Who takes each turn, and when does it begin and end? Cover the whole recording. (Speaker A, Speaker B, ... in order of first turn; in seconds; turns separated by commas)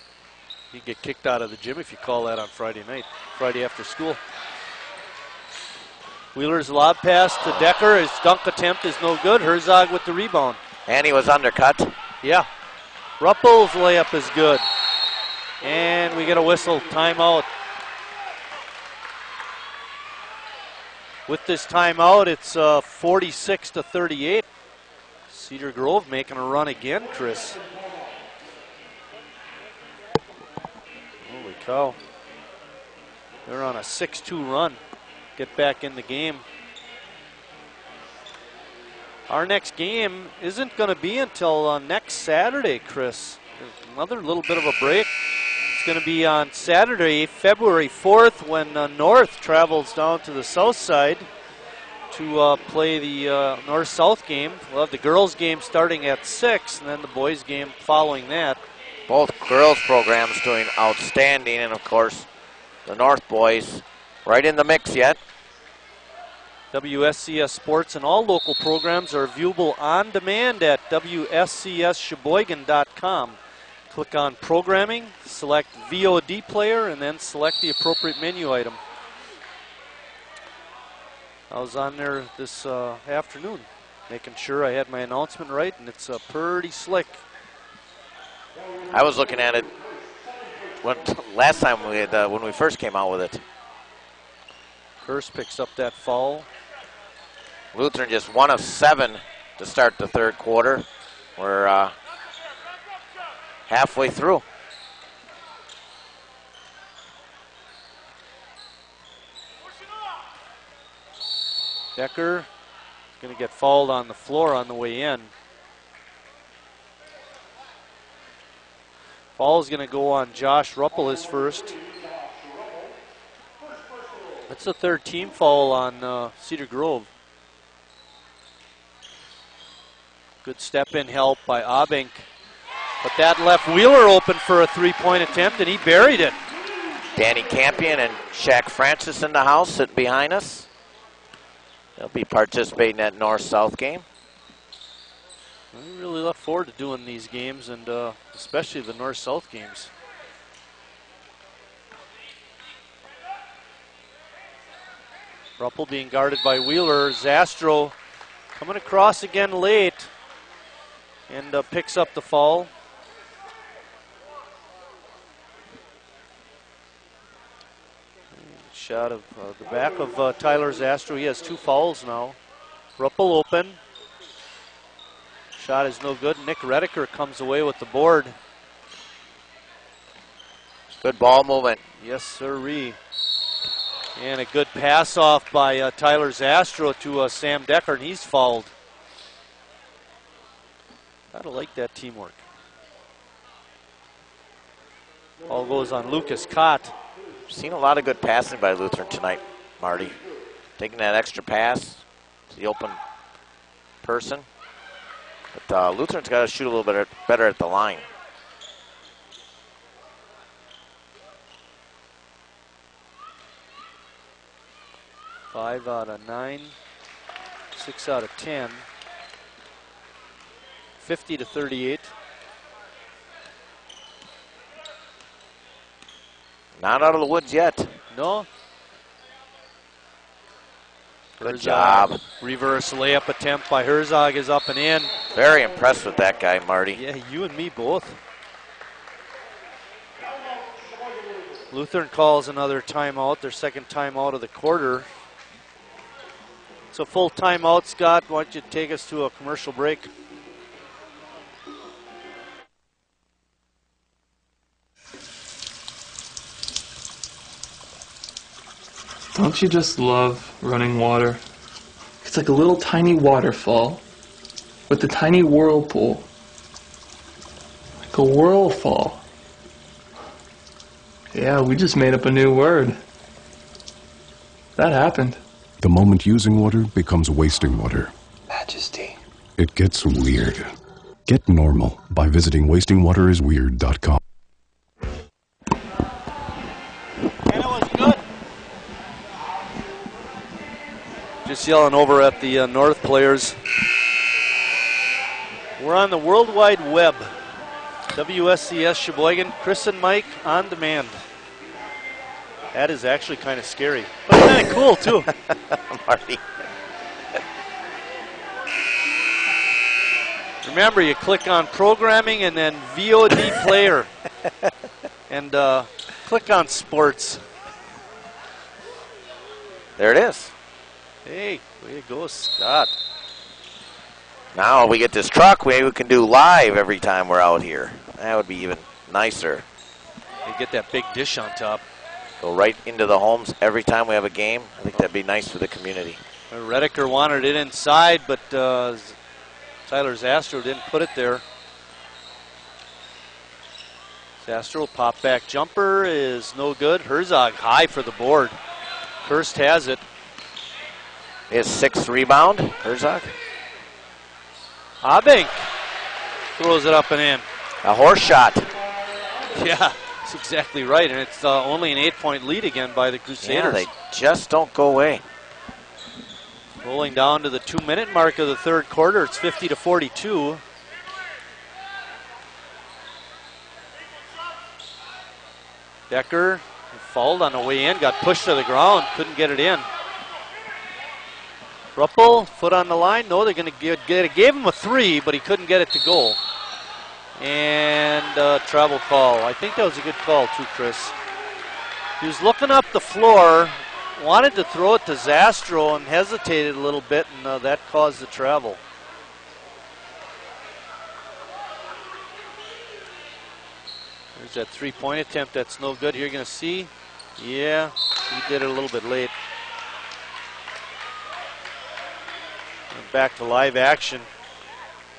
Speaker A: 0.7-4.2, Speaker A: 6.3-10.6, Speaker B: 10.9-11.9, Speaker A: 12.2-12.5, Speaker A: 13.2-14.6, Speaker A: 15.6-17.5, Speaker A: 21.3-24.5, Speaker A: 25.3-27.6, Speaker A: 31.2-32.0, Speaker A: 33.5-34.8, Speaker A: 35.4-36.4, Speaker A: 39.3-45.1, Speaker A: 45.7-51.3, Speaker A: 52.1-58.6, Speaker B: 59.1-62.3, Speaker B: 62.9-65.2, Speaker A: 66.7-73.4, Speaker A: 73.9-78.8, Speaker A: 81.5-87.2, Speaker B: 88.9-89.7, Speaker B: 90.8-93.4, Speaker A: 95.0-96.5, Speaker B: 97.7-100.8, Speaker B: 101.4-101.9, Speaker B: 103.7-104.4, Speaker A: 112.0-112.5, Speaker A: 113.2-115.3, Speaker A: 119.4-121.8, Speaker A: 124.5-127.1, Speaker A: 130.4-132.3, Speaker A: 133.0-136.4, Speaker B: 137.2-140.7, Speaker B: 142.0-144.1, Speaker A: 145.7-149.9, Speaker A: 155.6-157.9, Speaker A: 158.6-160.1, Speaker A: 161.3-162.7, Speaker A: 168.3-172.4, Speaker A: 173.0-173.8, Speaker A: 175.6-178.3, Speaker B: 181.0-181.8, Speaker A: 182.0-183.0, Speaker A: 184.2-188.7, Speaker A: 191.3-192.4, Speaker A: 195.5-196.9, Speaker B: 197.5-200.2, Speaker B: 200.8-203.0, Speaker B: 204.0-204.5, Speaker B: 205.5-208.1, Speaker A: 215.5-216.7, Speaker A: 217.8-218.8, Speaker A: 221.0-222.1, Speaker B: 226.8-227.9, Speaker A: 228.1-228.5, Speaker A: 231.4-235.1, Speaker B: 231.4-232.2, Speaker B: 235.3-237.0, Speaker A: 236.9-238.2, Speaker A: 241.7-245.1, Speaker A: 246.9-250.1, Speaker C: 259.3-261.4, Speaker C: 262.2-264.0, Speaker C: 264.9-266.3, Speaker C: 268.0-269.2, Speaker C: 271.3-273.0, Speaker C: 274.8-275.4, Speaker D: 275.8-278.1, Speaker C: 278.5-279.2, Speaker D: 279.6-280.7, Speaker D: 281.3-284.2, Speaker A: 287.5-288.2, Speaker A: 291.4-293.6, Speaker A: 295.8-297.3, Speaker A: 298.1-301.2, Speaker A: 302.7-305.3, Speaker B: 305.5-306.4, Speaker A: 310.6-314.1, Speaker A: 315.3-317.4, Speaker B: 320.0-320.5, Speaker A: 321.2-322.9, Speaker B: 324.5-329.6, Speaker A: 330.4-331.8, Speaker B: 332.4-336.2, Speaker A: 336.5-339.2, Speaker A: 339.9-341.4, Speaker A: 344.4-348.6, Speaker A: 349.3-350.0, Speaker B: 351.5-353.3, Speaker A: 355.0-355.7, Speaker A: 356.6-357.5, Speaker B: 357.8-358.7, Speaker A: 359.5-363.8, Speaker B: 363.4-365.2, Speaker A: 366.8-370.6, Speaker A: 376.1-379.9, Speaker A: 381.9-386.4, Speaker A: 387.4-391.1, Speaker A: 392.2-398.8, Speaker A: 404.4-409.3, Speaker A: 412.9-414.3